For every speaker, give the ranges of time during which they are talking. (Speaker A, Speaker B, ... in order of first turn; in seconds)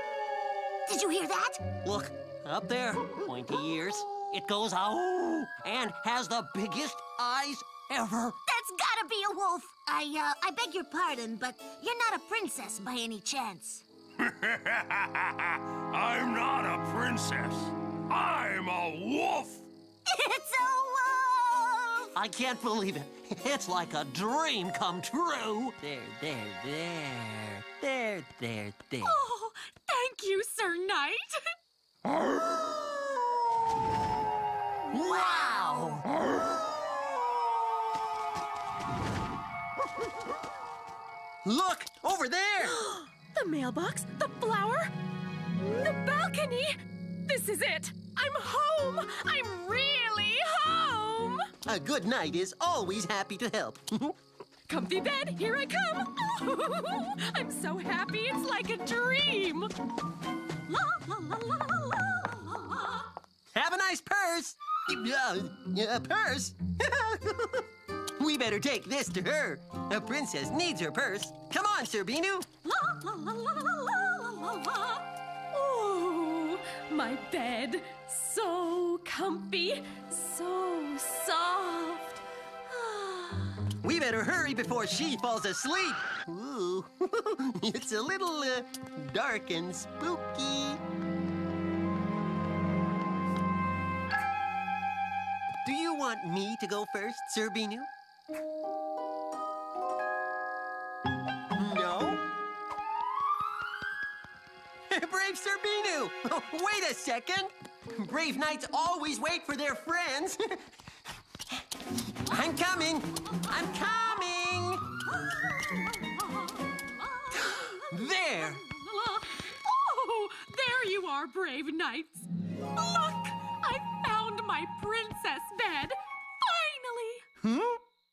Speaker A: 0.9-1.8, 8.5-13.9, 20.1-22.1
Speaker B: 1.8-8.4, 22.1-29.2, 32.1-33.4, 34.9-36.1, 41.4-42.8, 51.6-54.1, 63.5-72.5, 83.8-90.8, 95.6-97.9, 101.5-102.2, 104.9-110.7, 112.2-115.0, 117.5-118.6, 127.4-127.8
Speaker C: 14.2-19.7
Speaker D: 29.0-31.4, 42.6-44.9, 45.6-51.5, 54.7-59.7, 60.7-63.1, 72.6-83.6, 115.2-127.3